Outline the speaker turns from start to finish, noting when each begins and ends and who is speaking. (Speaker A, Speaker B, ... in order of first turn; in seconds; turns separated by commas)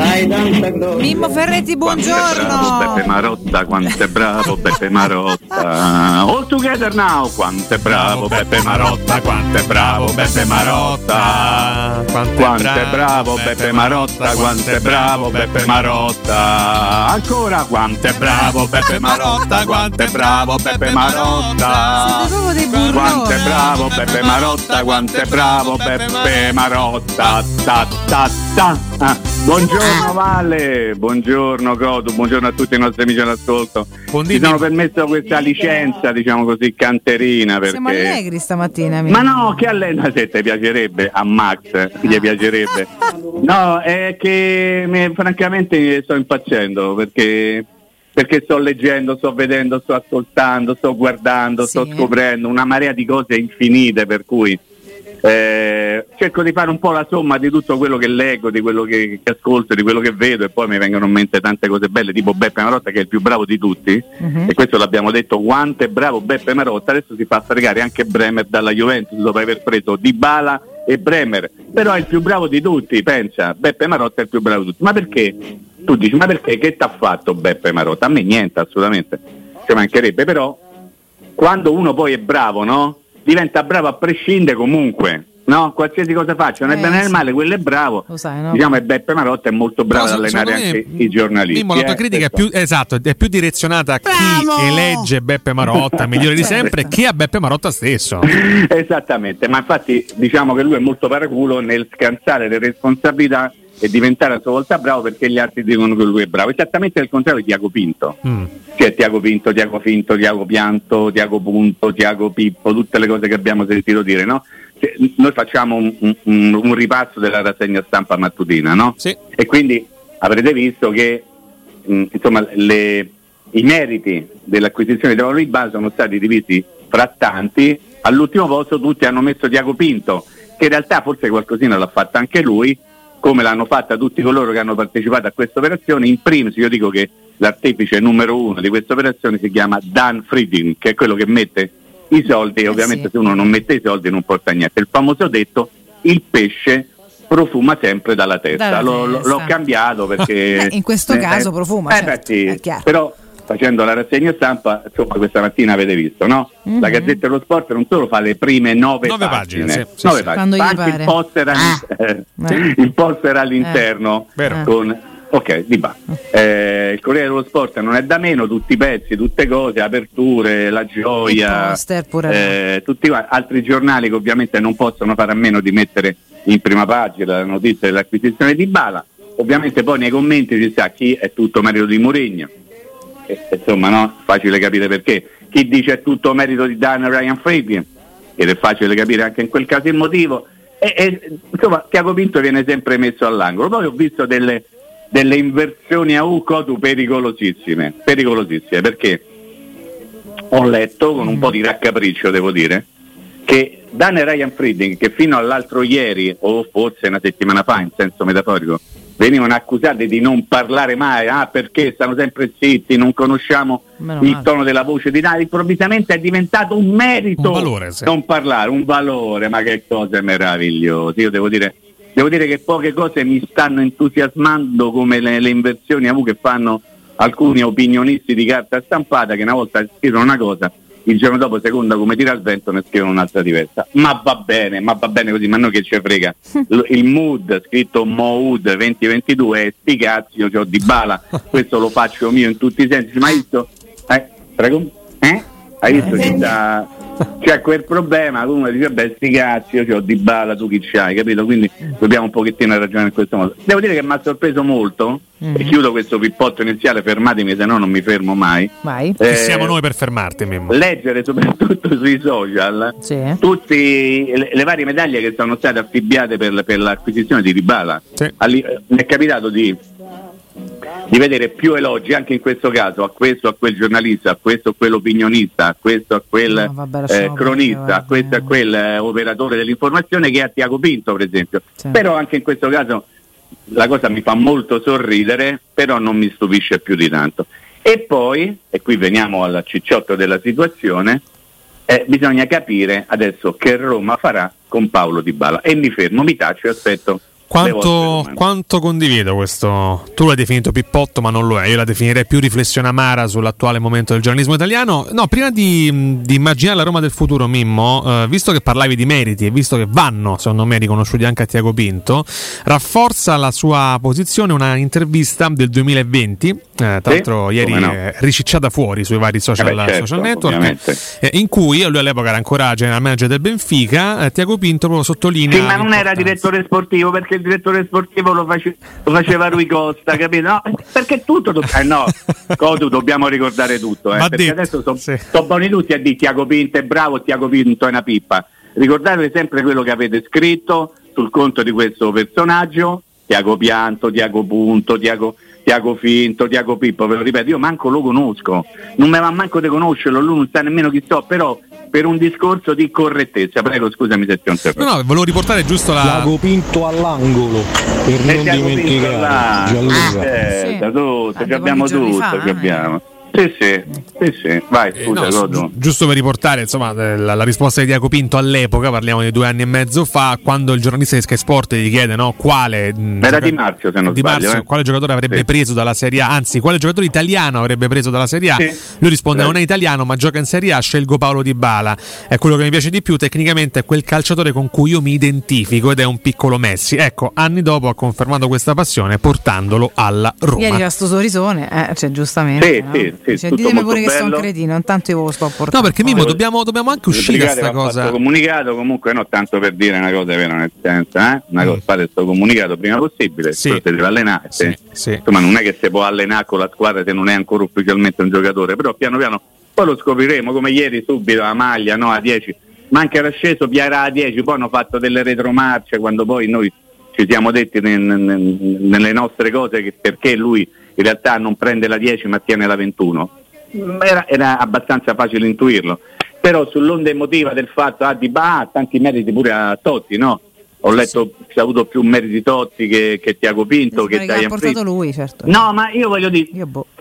Speaker A: 0.2-1.1, Speaker B: 0.9-3.0, Speaker C: 1.8-11.8, Speaker D: 7.8-16.1, Speaker C: 12.4-22.3, Speaker D: 18.1-27.4, Speaker B: 22.0-23.5, Speaker C: 22.9-38.2, Speaker D: 34.1-34.7, Speaker B: 37.7-39.6, Speaker C: 39.1-54.6, Speaker B: 51.6-52.1, Speaker C: 55.2-80.6, Speaker B: 64.2-64.5, Speaker C: 81.4-92.4, Speaker B: 86.6-87.2, Speaker B: 88.1-88.8, Speaker D: 89.9-98.3, Speaker B: 94.1-95.0, Speaker C: 95.8-96.7, Speaker B: 96.4-96.7, Speaker C: 98.2-108.2, Speaker C: 108.7-121.2, Speaker C: 121.8-182.5, Speaker B: 142.7-143.1, Speaker B: 148.5-149.5, Speaker B: 150.5-152.8, Speaker B: 156.7-157.2, Speaker D: 159.0-160.3, Speaker B: 160.3-161.1, Speaker B: 162.4-162.7, Speaker D: 164.4-164.6, Speaker B: 171.2-172.5, Speaker C: 183.3-187.9, Speaker C: 188.4-199.2, Speaker C: 200.5-202.8, Speaker C: 203.4-246.9, Speaker B: 214.0-214.4, Speaker D: 217.4-218.1, Speaker C: 247.4-259.7, Speaker B: 255.4-255.7, Speaker B: 258.8-259.2, Speaker D: 259.3-260.8, Speaker C: 260.7-269.8, Speaker B: 263.0-263.4, Speaker C: 271.1-283.1, Speaker B: 276.5-278.5, Speaker C: 283.7-291.2, Speaker C: 291.9-298.4, Speaker D: 297.5-326.3, Speaker C: 317.1-318.0, Speaker C: 319.6-321.0, Speaker C: 325.5-354.9, Speaker D: 334.1-335.2, Speaker D: 354.8-356.3, Speaker A: 356.0-360.4, Speaker C: 358.2-365.7, Speaker B: 360.5-360.8, Speaker B: 361.4-362.9, Speaker D: 364.9-390.8, Speaker C: 373.2-374.6, Speaker B: 390.6-396.3, Speaker C: 392.6-394.4, Speaker D: 395.7-398.2, Speaker C: 396.1-396.4, Speaker C: 397.1-434.8, Speaker D: 403.5-403.8, Speaker D: 404.6-405.2, Speaker B: 433.9-435.6, Speaker C: 435.4-436.5, Speaker B: 436.5-436.8